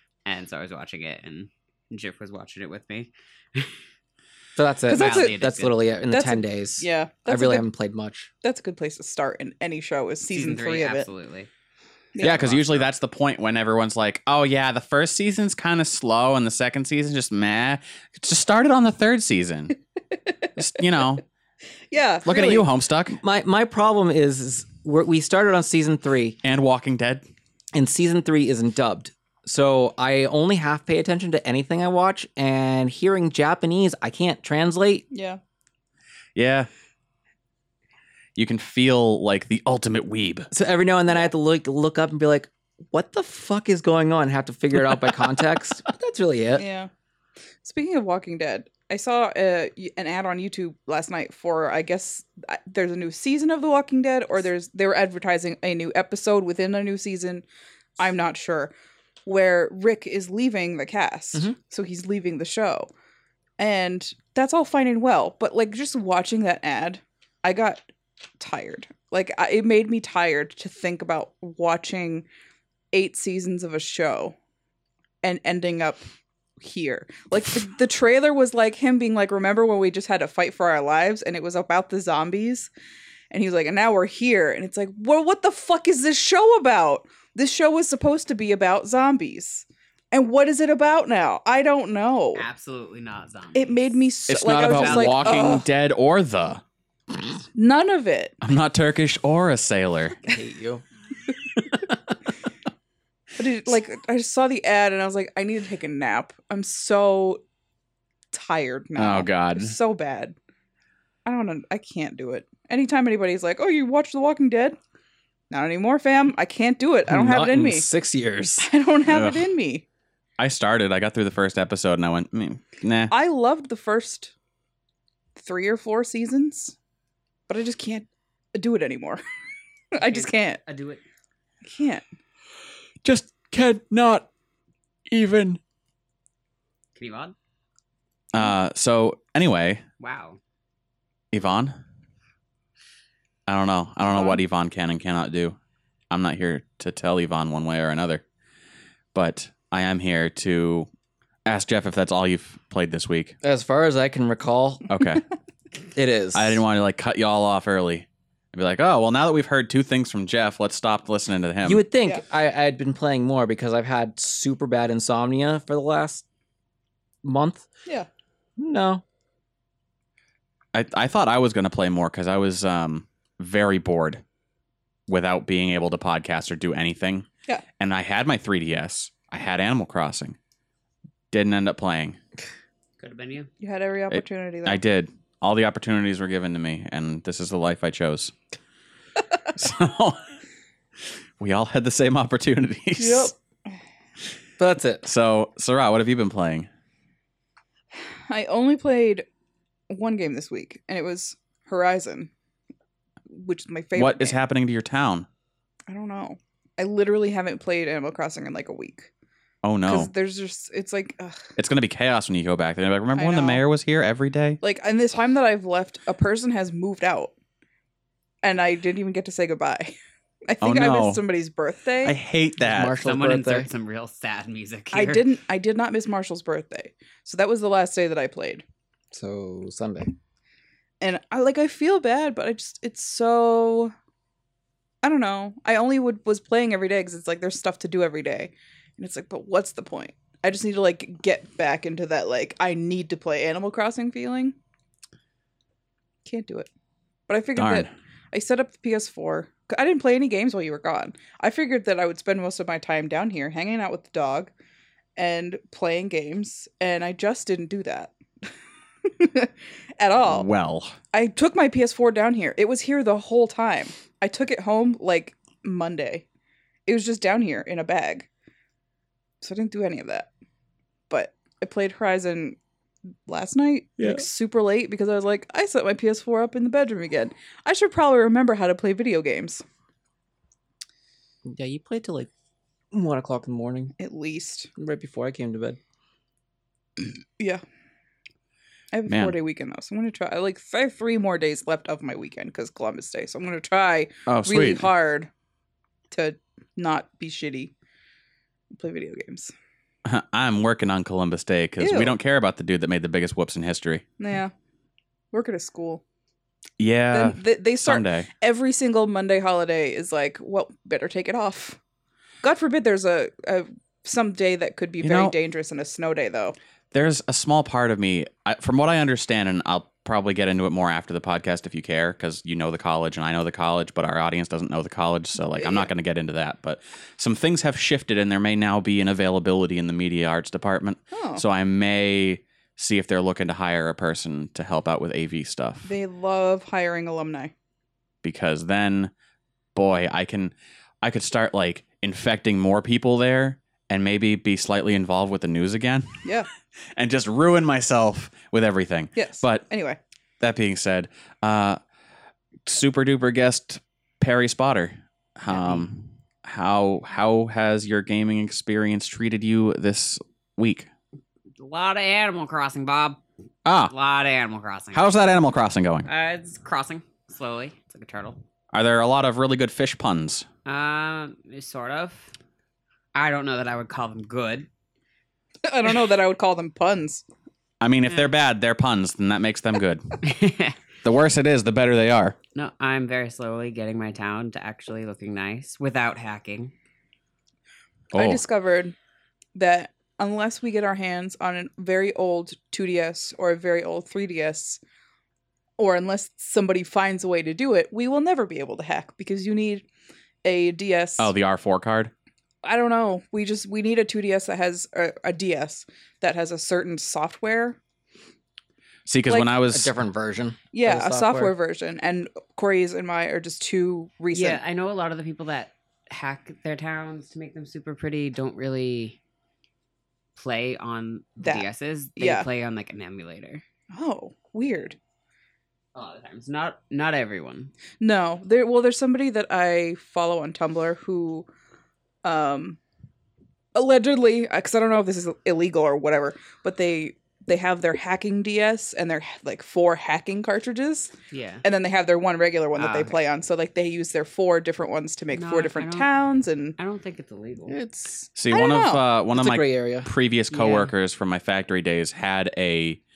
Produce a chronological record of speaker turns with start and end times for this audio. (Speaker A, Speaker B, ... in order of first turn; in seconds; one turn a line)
Speaker A: 0.2-3.7
Speaker B: 4.5-8.3
Speaker C: 4.9-5.4
Speaker A: 4.9-5.8
Speaker C: 6.1-7.6
Speaker C: 8.4-11.1
Speaker A: 10.3-11.5
Speaker C: 12.1-12.8
Speaker D: 12.2-19.7
Speaker D: 20.6-21.2
Speaker C: 21.9-22.7
Speaker D: 22.2-23.2
Speaker B: 23.2-26.4
Speaker D: 26.4-27.2
Speaker B: 27.7-35.0
Speaker C: 35.1-35.4
Speaker D: 36.4-36.7
Speaker D: 38.4-40.5
Speaker B: 40.5-46.6
Speaker C: 46.5-46.9
Speaker C: 47.6-57.4
Speaker C: 58.0-58.7
Speaker C: 59.2-62.9
Speaker C: 63.6-67.8
Speaker C: 68.4-72.2
Speaker C: 72.9-74.3
Speaker C: 75.2-76.0
Speaker C: 76.6-82.7
Speaker C: 83.3-92.4
Speaker A: 92.3-94.0
Speaker C: 93.5-95.7
Speaker D: 94.3-96.6
Speaker A: 94.5-95.6
Speaker C: 97.5-98.3
Speaker D: 98.4-100.2
Speaker B: 100.2-100.8
Speaker C: 103.4-107.4
Speaker C: 108.3-110.3
Speaker D: 109.0-109.7
Speaker C: 111.2-114.8
Speaker C: 115.5-117.8
Speaker B: 117.1-118.7
Speaker C: 118.6-119.8
Speaker D: 119.1-119.4
Speaker D: 120.4-123.1
Speaker C: 123.1-124.3
Speaker C: 125.3-126.7
Speaker C: 127.5-129.2
Speaker C: 129.9-130.6
Speaker A: 130.0-131.0
Speaker C: 131.6-132.0
Speaker D: 133.0-134.3
Speaker D: 135.1-135.6
Speaker A: 136.9-137.3
Speaker D: 138.3-139.8
Speaker A: 140.0-140.4
Speaker D: 141.3-141.8
Speaker D: 143.5-145.6
Speaker C: 144.0-144.4
Speaker D: 146.1-148.2
Speaker D: 149.1-150.9
Speaker D: 151.4-153.3
Speaker B: 153.4-154.9
Speaker D: 154.9-155.2
Speaker B: 155.9-156.6
Speaker D: 156.3-161.8
Speaker B: 161.6-166.2
Speaker B: 167.2-167.7
Speaker B: 168.6-169.0
Speaker D: 170.7-174.2
Speaker D: 175.1-177.2
Speaker D: 177.8-180.4
Speaker D: 181.3-182.2
Speaker A: 183.0-183.5
Speaker C: 183.6-184.8
Speaker D: 184.1-188.3
Speaker D: 189.5-190.2
Speaker D: 191.4-193.3
Speaker C: 193.0-193.3
Speaker B: 194.6-195.0
Speaker D: 195.0-196.7
Speaker C: 197.9-199.2
Speaker C: 199.9-202.3
Speaker C: 203.3-204.4
Speaker D: 203.9-205.3
Speaker C: 205.9-209.1
Speaker D: 209.6-210.1
Speaker C: 209.9-211.4
Speaker D: 211.6-214.6
Speaker C: 213.2-213.6
Speaker C: 214.6-217.3
Speaker C: 218.4-219.9
Speaker C: 220.5-222.2
Speaker D: 220.6-221.2
Speaker D: 222.0-222.9
Speaker B: 222.6-223.7
Speaker A: 223.0-225.3
Speaker C: 224.9-228.6
Speaker B: 229.1-230.1
Speaker C: 231.0-233.9
Speaker C: 235.0-244.5
Speaker C: 246.2-246.7
Speaker C: 247.3-254.5
Speaker D: 247.6-247.9
Speaker C: 255.2-258.1
Speaker C: 259.0-260.5
Speaker D: 260.2-260.9
Speaker C: 261.1-266.2
Speaker C: 266.9-268.3
Speaker C: 269.4-270.3
Speaker C: 271.1-272.6
Speaker C: 273.2-279.6
Speaker B: 281.4-282.3
Speaker B: 282.9-283.9
Speaker C: 284.0-284.7
Speaker B: 284.8-285.8
Speaker C: 288.9-295.3
Speaker D: 289.1-289.4
Speaker D: 294.3-294.9
Speaker C: 296.1-297.7
Speaker C: 298.7-299.5
Speaker D: 300.0-304.0
Speaker C: 301.8-302.1
Speaker C: 304.2-304.5
Speaker C: 305.3-306.0
Speaker D: 306.8-308.3
Speaker C: 307.1-311.8
Speaker C: 312.4-316.6
Speaker D: 315.0-315.3
Speaker D: 316.9-335.9
Speaker C: 325.5-325.9
Speaker C: 331.1-331.4
Speaker C: 335.8-337.5
Speaker D: 338.2-339.1
Speaker D: 339.7-346.3
Speaker D: 346.9-349.6
Speaker C: 349.1-350.0
Speaker D: 350.4-351.8
Speaker D: 352.6-360.9
Speaker A: 361.6-363.2
Speaker D: 363.6-363.9
Speaker A: 363.9-365.1
Speaker D: 364.9-366.1
Speaker A: 366.1-368.4
Speaker D: 368.7-370.5
Speaker A: 370.6-372.3
Speaker A: 373.1-374.7
Speaker C: 375.6-377.2
Speaker D: 377.8-380.2
Speaker A: 380.2-380.7
Speaker D: 381.0-382.4
Speaker A: 382.5-386.7
Speaker D: 388.1-388.4
Speaker C: 388.1-388.9
Speaker C: 389.5-394.8
Speaker C: 395.8-399.8
Speaker C: 400.4-401.3
Speaker D: 401.2-402.1
Speaker C: 402.6-407.8
Speaker D: 409.1-409.9
Speaker B: 409.7-411.5
Speaker C: 410.7-414.6
Speaker A: 414.3-419.2
Speaker A: 420.4-423.6
Speaker C: 421.4-422.5
Speaker C: 423.9-425.0
Speaker A: 425.9-427.7
Speaker C: 428.0-431.5
Speaker C: 432.2-432.8
Speaker C: 433.7-441.1
Speaker A: 441.3-441.6
Speaker C: 441.6-446.8
Speaker A: 442.8-443.1
Speaker A: 445.3-446.1
Speaker A: 446.8-447.8
Speaker B: 447.7-448.3
Speaker D: 448.3-453.0
Speaker C: 448.5-449.0
Speaker B: 449.3-450.1
Speaker A: 450.5-450.9